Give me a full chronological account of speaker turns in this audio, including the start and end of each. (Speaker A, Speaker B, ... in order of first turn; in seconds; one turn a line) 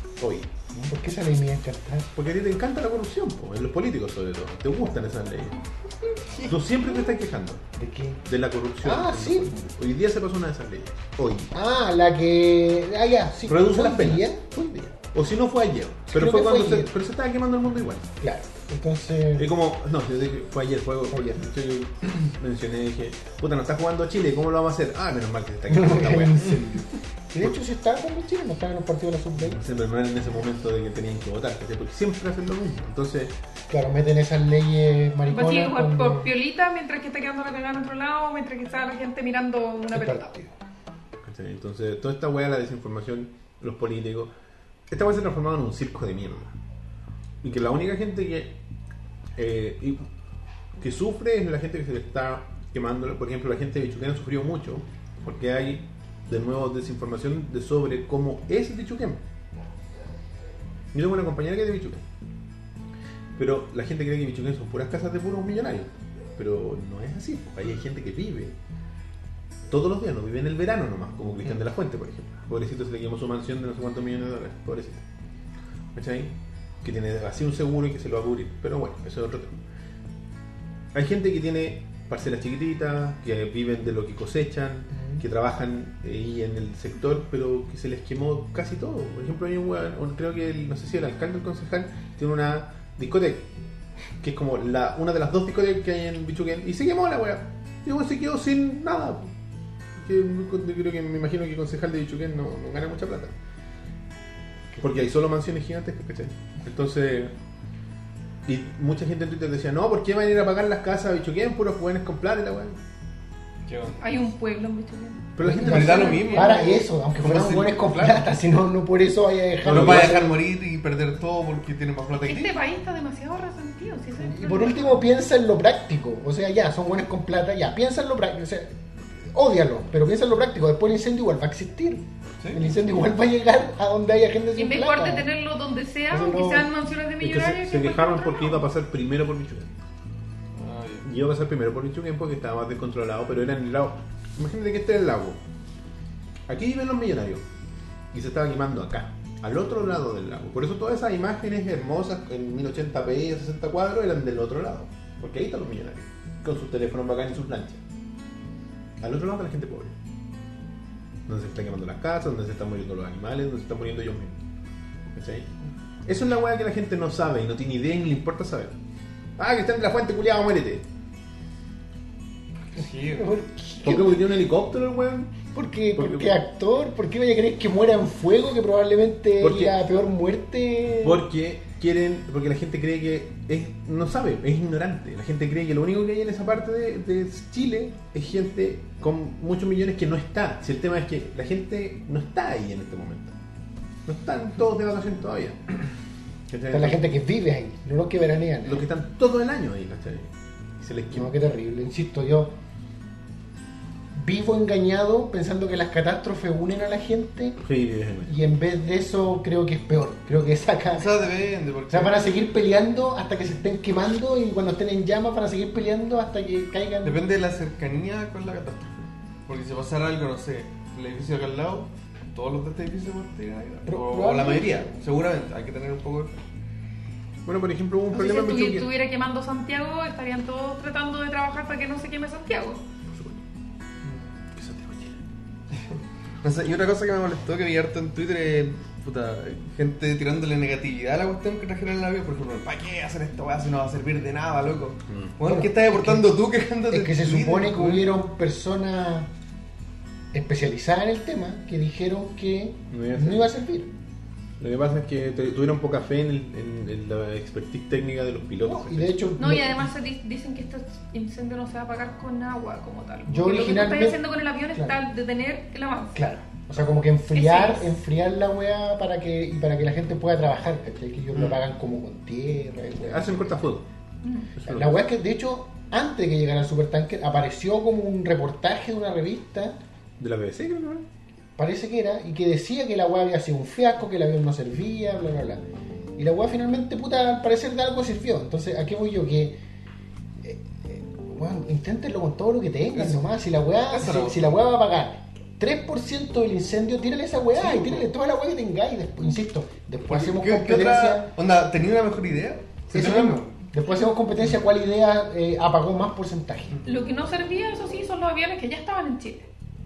Speaker A: 0.2-0.5
Speaker B: 0.7-2.1
Speaker A: 2.2-5.6
Speaker A: 6.5-7.6
Speaker B: 7.8-8.2
Speaker A: 8.3-11.5
Speaker B: 8.8-9.7
Speaker B: 11.5-14.4
Speaker A: 13.5-18.1
Speaker B: 16.1-16.9
Speaker B: 18.2-19.5
Speaker A: 19.4-26.6
Speaker B: 21.1-21.4
Speaker B: 25.7-29.6
Speaker A: 29.4-33.4
Speaker B: 33.7-36.3
Speaker C: 35.3-40.3
Speaker B: 39.9-40.5
Speaker A: 41.2-44.3
Speaker A: 44.9-46.5
Speaker A: 47.4-48.6
Speaker A: 49.4-50.1
Speaker A: 50.8-59.2
Speaker A: 60.9-62.0
Speaker A: 63.4-68.6
Speaker A: 69.7-75.0
Speaker A: 75.9-79.6
Speaker A: 80.9-93.5
Speaker B: 84.9-85.2
Speaker A: 94.2-99.3
Speaker A: 100.0-103.3
Speaker A: 104.8-107.3
Speaker A: 108.5-112.8
Speaker D: 113.7-114.0
Speaker C: 114.0-116.8
Speaker A: 115.4-116.2
Speaker B: 115.4-120.4
Speaker D: 115.5-118.4
Speaker D: 119.6-122.6
Speaker A: 119.6-120.2
Speaker C: 122.2-125.0
Speaker B: 124.2-135.3
Speaker D: 132.4-132.7
Speaker C: 134.6-138.7
Speaker B: 136.1-136.7
Speaker A: 137.2-139.8
Speaker D: 140.6-141.1
Speaker A: 141.0-145.4
Speaker A: 146.5-147.4
Speaker A: 148.1-157.8
Speaker A: 159.0-159.9
Speaker A: 161.3-164.4
Speaker A: 165.1-165.5
Speaker A: 166.1-168.8
Speaker A: 169.4-170.9
Speaker D: 172.7-173.3
Speaker B: 173.1-174.3
Speaker A: 173.8-176.4
Speaker B: 175.5-181.2
Speaker A: 179.4-179.8
Speaker A: 180.9-193.3
Speaker A: 194.1-195.9
Speaker A: 196.5-197.1
Speaker B: 196.7-198.8
Speaker A: 198.6-201.3
Speaker B: 201.1-202.6
Speaker B: 204.1-207.6
Speaker A: 207.6-208.3
Speaker B: 208.2-211.2
Speaker D: 210.9-212.4
Speaker B: 211.9-217.2
Speaker D: 217.0-226.4
Speaker B: 223.9-224.9
Speaker A: 227.4-228.9
Speaker C: 228.1-232.8
Speaker A: 233.1-233.4
Speaker A: 234.6-235.2
Speaker D: 236.4-248.1
Speaker A: 245.1-245.3
Speaker B: 245.5-246.3
Speaker B: 246.9-249.3
Speaker B: 250.3-253.9
Speaker A: 252.9-253.5
Speaker A: 254.6-259.2
Speaker B: 258.6-259.9
Speaker C: 259.4-266.2
Speaker B: 263.3-264.2
Speaker B: 266.1-273.7
Speaker C: 267.3-267.9
Speaker D: 271.4-271.6
Speaker A: 273.0-273.9
Speaker C: 274.2-274.5
Speaker A: 274.6-275.0
Speaker B: 274.6-279.8
Speaker A: 280.2-281.1
Speaker B: 281.6-285.6
Speaker B: 286.2-289.6
Speaker B: 290.4-301.3
Speaker D: 292.9-293.2
Speaker D: 293.9-294.6
Speaker D: 297.5-298.1
Speaker D: 300.1-303.6
Speaker B: 302.9-306.8
Speaker D: 306.7-307.0
Speaker C: 306.9-309.5